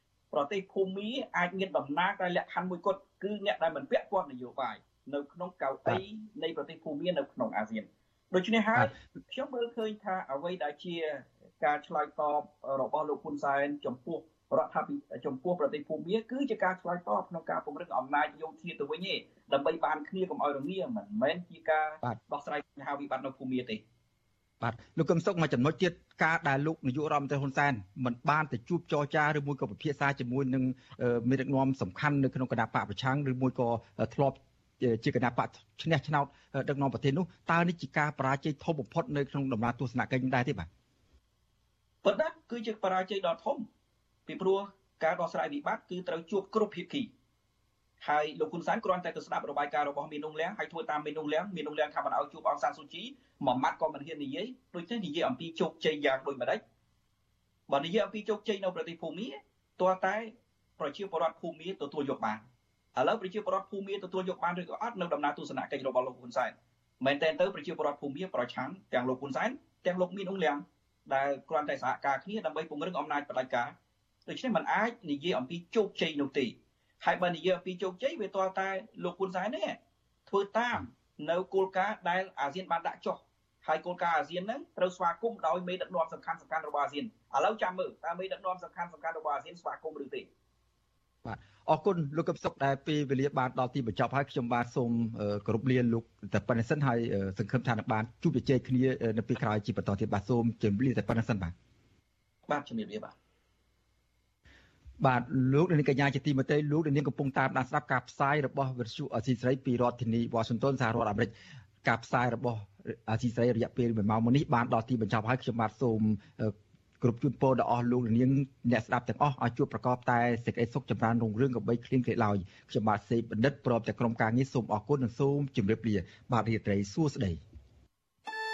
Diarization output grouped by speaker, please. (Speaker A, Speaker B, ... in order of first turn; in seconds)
Speaker A: 0.3-23.8, 42.0-43.7, 44.3-47.1, 48.0-56.6, 57.7-62.5, 63.0-73.7, 74.3-79.8, 80.3-90.3, 102.5-103.1
Speaker B: 24.6-40.7, 91.2-101.5, 105.0-111.3, 111.8-127.4